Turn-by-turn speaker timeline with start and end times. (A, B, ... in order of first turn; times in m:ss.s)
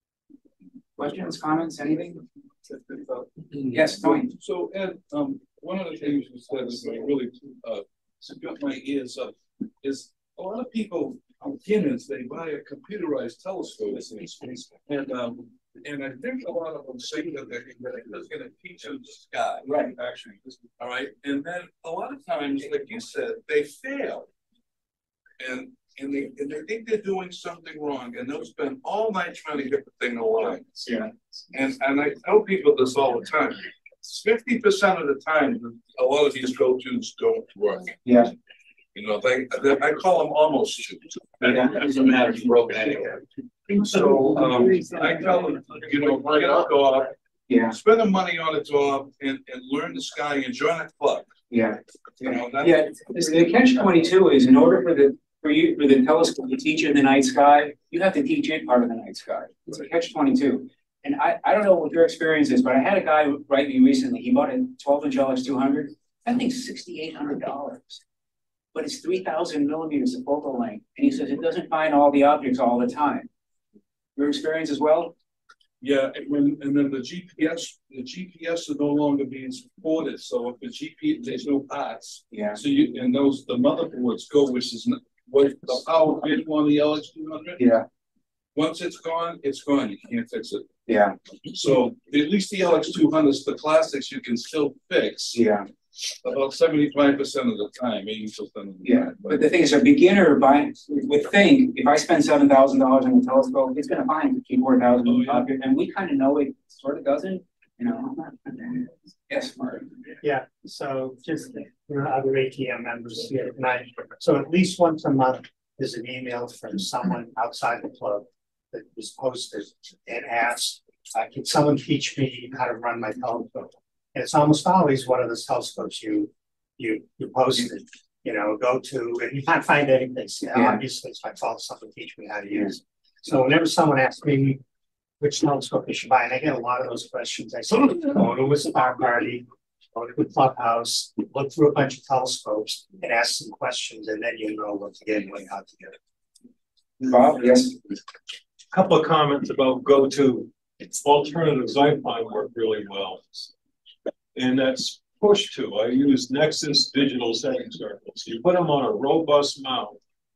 0:01.0-0:04.3 A
0:03.8-0:24.3 B
0:19.6-0:20.0 A
0:25.4-0:30.9 B
0:31.5-0:38.0 B
0:38.0-0:38.3 A
0:38.9-0:47.1 B
0:41.4-0:41.9 A
0:47.5-0:47.8 A
0:47.7-0:51.3 B
0:51.5-1:08.0 A
0:52.2-0:53.9 B
1:08.7-1:13.3 A
1:14.2-1:15.1 A
1:15.8-1:27.6 B
1:22.3-1:22.6 A
1:27.6-1:27.8 A
1:28.5-1:30.7 B
1:30.9-1:31.2 A
1:31.5-1:35.4 B
1:35.3-1:35.7 A
1:36.2-1:39.5 B
1:38.8-1:49.9 A
1:45.0-1:45.5 B
1:50.2-2:14.6 C
2:10.5-2:10.8 A
2:15.2-2:26.0 C
2:27.0-2:27.8 A
2:28.7-2:33.5 D
2:34.3-2:40.0 D